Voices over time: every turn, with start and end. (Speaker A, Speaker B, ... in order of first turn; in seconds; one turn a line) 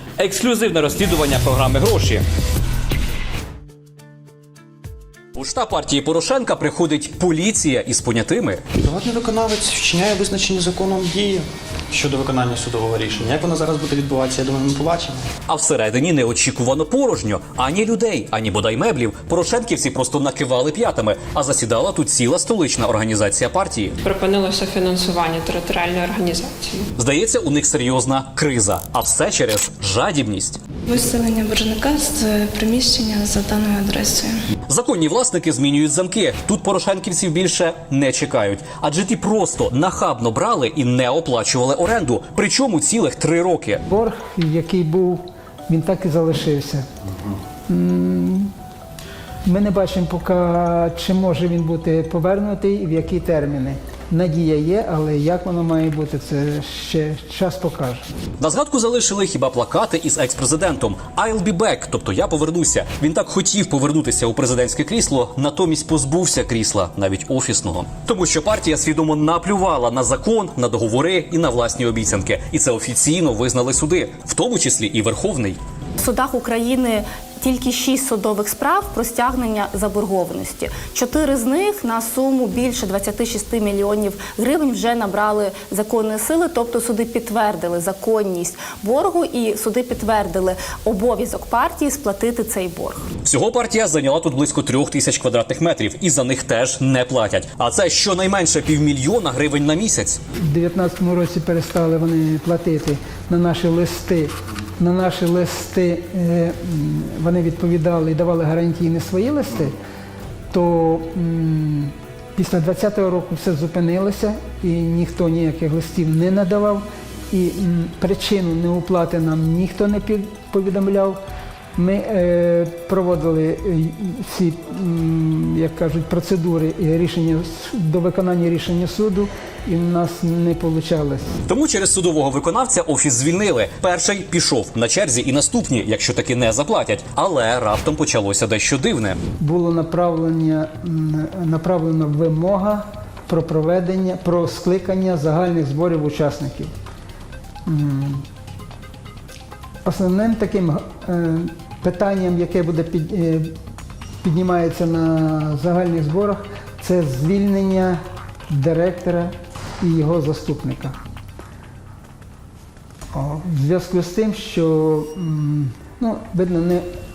Speaker A: 0.2-2.2
Speaker A: 5.3-8.6
Speaker B: 8.8-15.2
Speaker A: 15.5-23.9
Speaker C: 24.0-26.8
Speaker A: 26.9-30.6
Speaker D: 30.9-34.4
Speaker A: 34.7-43.8
Speaker E: 43.9-46.8
Speaker E: 47.7-48.5
Speaker E: 49.4-58.0
Speaker A: 58.4-75.6
Speaker F: 76.0-93.0
Speaker A: 93.2-100.2
Speaker E: 100.5-109.7
Speaker E: 110.5-121.2
Speaker E: 121.8-131.3
Speaker A: 131.5-139.2
Speaker E: 139.4-146.7
Speaker E: 147.7-148.2
Speaker E: 149.8-153.5
Speaker E: 154.2-158.0
Speaker E: 158.5-160.9
Speaker E: 163.1-166.8